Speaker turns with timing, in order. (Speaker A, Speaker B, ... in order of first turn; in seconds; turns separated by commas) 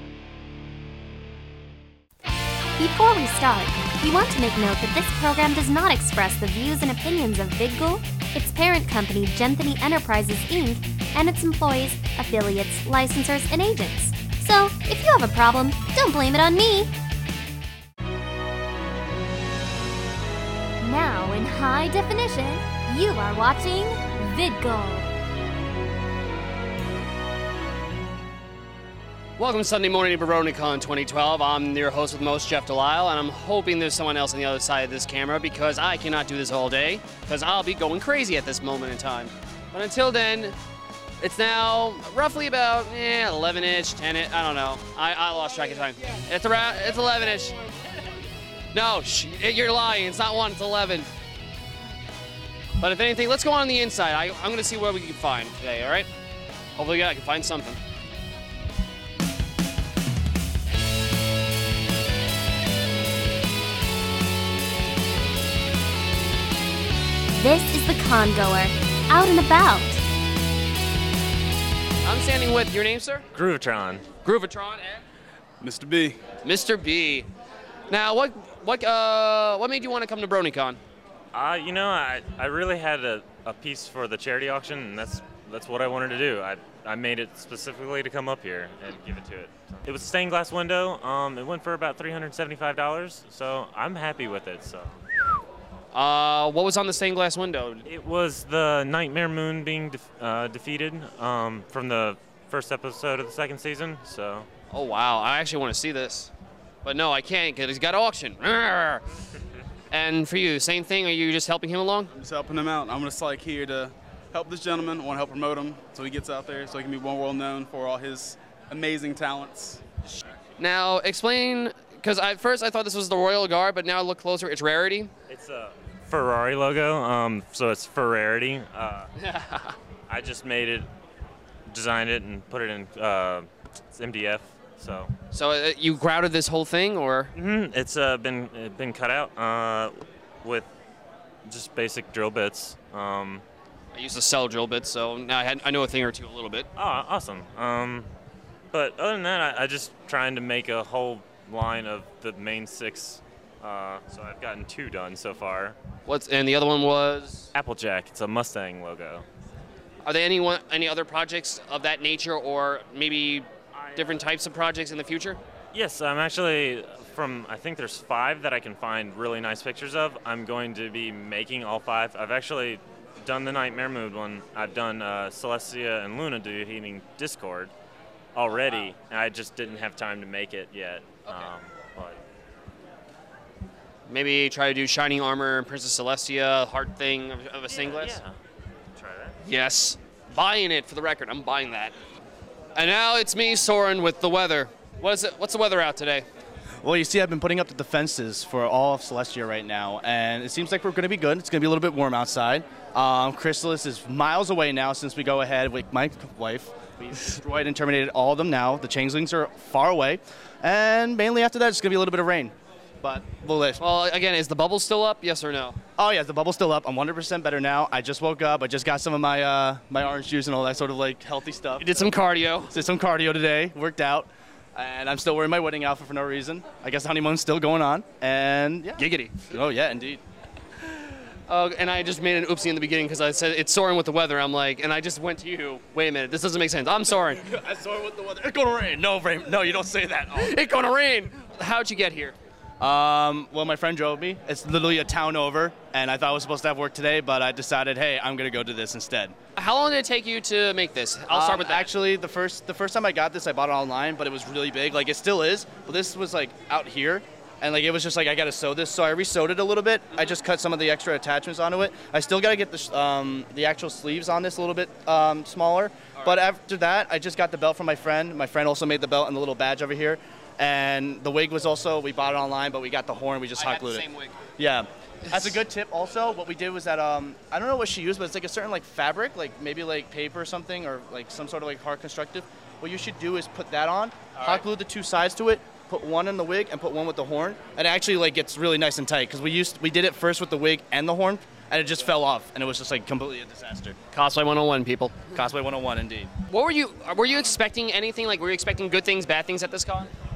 Speaker A: 2.8-16.9, Speaker A: 20.8-25.1, Speaker B: 29.4-40.6, Speaker B: 41.2-47.6, Speaker B: 48.7-51.1, Speaker B: 52.8-56.1, Speaker B: 56.7-57.8, Speaker A: 67.4-70.0, Speaker B: 72.0-73.3, Speaker C: 73.3-74.1, Speaker B: 74.2-75.0, Speaker D: 75.6-76.2, Speaker B: 76.4-77.3, Speaker B: 77.9-80.8, Speaker C: 81.3-95.0, Speaker B: 95.9-97.9, Speaker C: 97.9-104.5, Speaker B: 104.7-106.3, Speaker B: 106.8-109.0, Speaker B: 109.9-112.1, Speaker D: 112.1-119.8, Speaker B: 120.6-125.1, Speaker C: 125.3-129.1, Speaker B: 129.2-129.8, Speaker C: 130.1-130.9, Speaker C: 131.7-135.1, Speaker B: 135.3-137.3, Speaker C: 137.3-140.7, Speaker C: 141.5-143.4, Speaker B: 143.9-146.7, Speaker C: 146.8-148.1, Speaker C: 148.7-155.8, Speaker B: 156.1-157.5, Speaker C: 157.5-159.2, Speaker B: 160.0-165.4, Speaker C: 165.7-177.7, Speaker C: 178.3-182.2, Speaker B: 184.1-188.2, Speaker C: 187.7-188.3, Speaker C: 188.9-189.4, Speaker B: 189.4-191.9, Speaker B: 192.8-196.3, Speaker E: 196.8-213.8, Speaker B: 213.8-215.8, Speaker E: 216.0-222.1, Speaker B: 221.8-222.8, Speaker E: 222.7-230.2, Speaker B: 229.0-229.4, Speaker B: 231.5-237.4, Speaker E: 237.5-240.6, Speaker B: 240.3-242.4, Speaker E: 242.8-249.3, Speaker B: 249.6-251.9, Speaker E: 251.3-274.1, Speaker B: 266.2-266.4, Speaker B: 273.6-274.4, Speaker E: 274.6-294.0, Speaker B: 275.3-275.6, Speaker B: 294.1-295.2, Speaker E: 295.3-296.3, Speaker B: 296.5-300.1